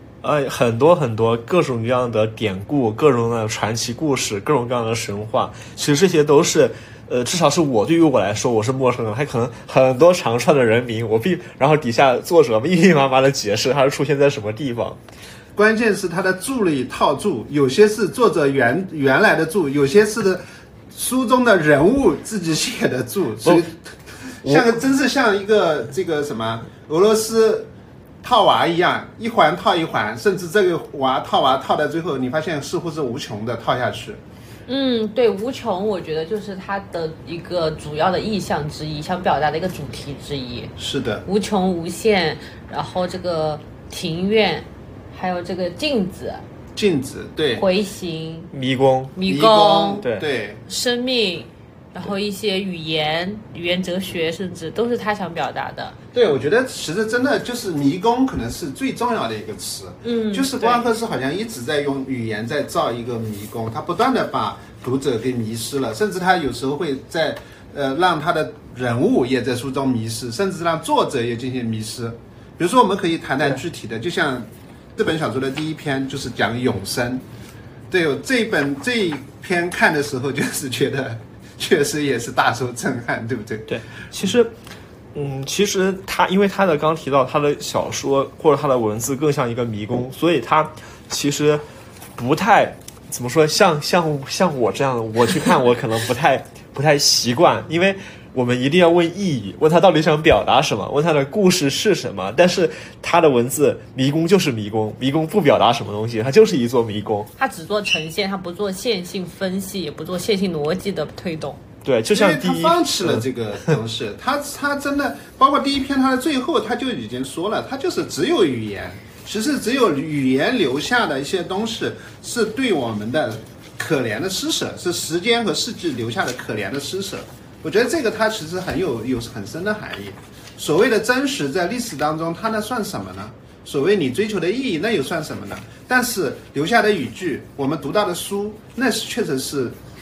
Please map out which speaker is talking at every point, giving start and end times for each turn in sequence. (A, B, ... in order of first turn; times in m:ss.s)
0:00.2-0:15.0 A
0:15.6-0:27.7 B
0:24.4-0:24.8 A
0:28.2-0:34.2 B
0:34.7-0:40.7 C
0:40.8-0:41.2 B
0:41.2-0:46.4 C
0:46.8-0:47.6 B
0:47.6-0:48.5 C
0:48.5-0:49.1 A
0:49.2-0:50.0 C
0:49.2-0:50.6 B
0:50.0-0:50.3 A
0:50.7-0:56.0 C
0:56.1-1:17.2 B
1:00.0-1:00.9 C
1:17.9-1:23.8 B
1:23.7-1:24.5 A
1:25.1-1:31.6 A
1:32.2-1:47.3 A
1:47.4-1:51.6 C
1:51.8-1:53.7 A
1:52.1-2:19.8 B